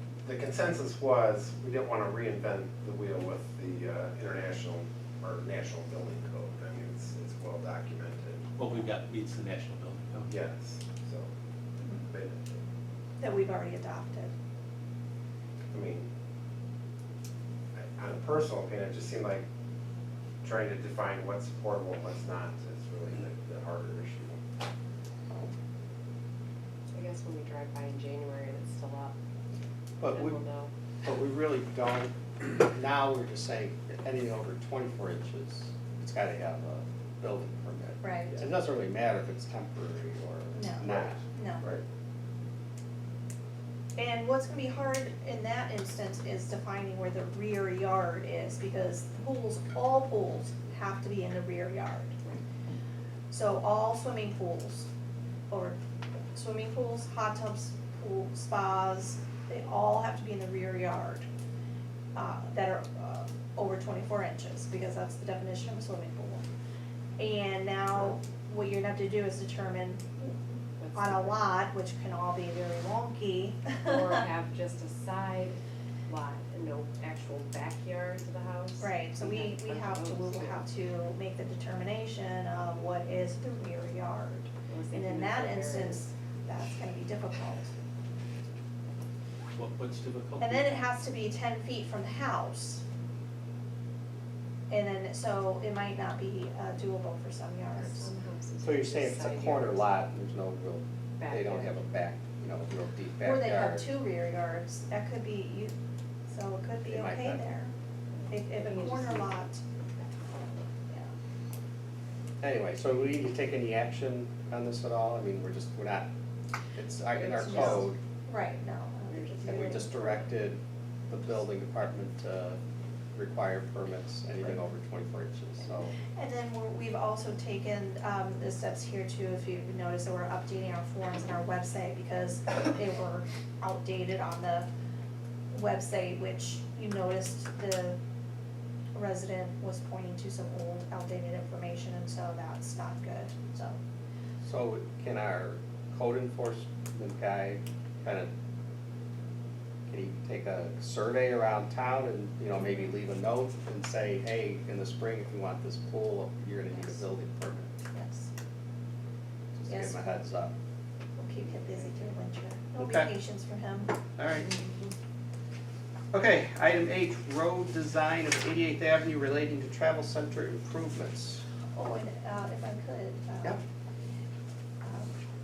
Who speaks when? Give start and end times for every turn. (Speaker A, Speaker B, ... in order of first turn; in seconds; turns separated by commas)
Speaker A: 0.2-8.5, Speaker B: 8.6-10.4, Speaker A: 10.3-11.3, Speaker A: 11.9-12.6, Speaker C: 13.2-14.3, Speaker A: 15.7-16.1, Speaker A: 17.7-19.4, Speaker A: 20.4-24.4, Speaker D: 26.9-29.1, Speaker E: 30.0-30.4, Speaker D: 30.1-30.7, Speaker E: 31.0-41.2, Speaker C: 38.0-38.4, Speaker C: 40.5-41.6, Speaker A: 40.8-41.8, Speaker C: 44.0-52.4, Speaker C: 53.3-54.9, Speaker C: 55.5-55.8, Speaker C: 56.3-61.2, Speaker C: 62.1-66.4, Speaker C: 67.2-70.4, Speaker D: 70.8-71.4, Speaker C: 70.9-74.2, Speaker D: 73.8-80.6, Speaker C: 78.8-87.7, Speaker D: 84.7-86.0, Speaker B: 89.5-90.7, Speaker C: 90.4-92.8, Speaker C: 94.7-98.1, Speaker D: 97.7-99.9, Speaker E: 98.6-103.9, Speaker D: 101.2-101.9, Speaker C: 103.2-105.7, Speaker C: 106.3-107.7, Speaker E: 106.8-107.5, Speaker D: 108.1-109.5, Speaker C: 108.3-109.6, Speaker D: 110.0-110.7, Speaker E: 112.4-116.1, Speaker E: 116.8-118.0, Speaker D: 117.2-117.8, Speaker C: 117.2-120.0, Speaker D: 119.1-120.3, Speaker E: 119.4-122.6, Speaker E: 123.1-125.9, Speaker C: 126.1-134.7, Speaker C: 135.5-138.0, Speaker C: 138.9-143.8, Speaker E: 144.4-148.3, Speaker E: 149.9-157.7, Speaker C: 152.6-152.9, Speaker C: 157.9-158.3, Speaker E: 159.5-160.5, Speaker C: 159.7-160.3, Speaker C: 161.2-163.9, Speaker D: 161.4-162.0, Speaker E: 162.8-163.1, Speaker E: 164.2-164.5, Speaker E: 166.1-171.4, Speaker C: 171.7-173.6, Speaker C: 174.8-175.1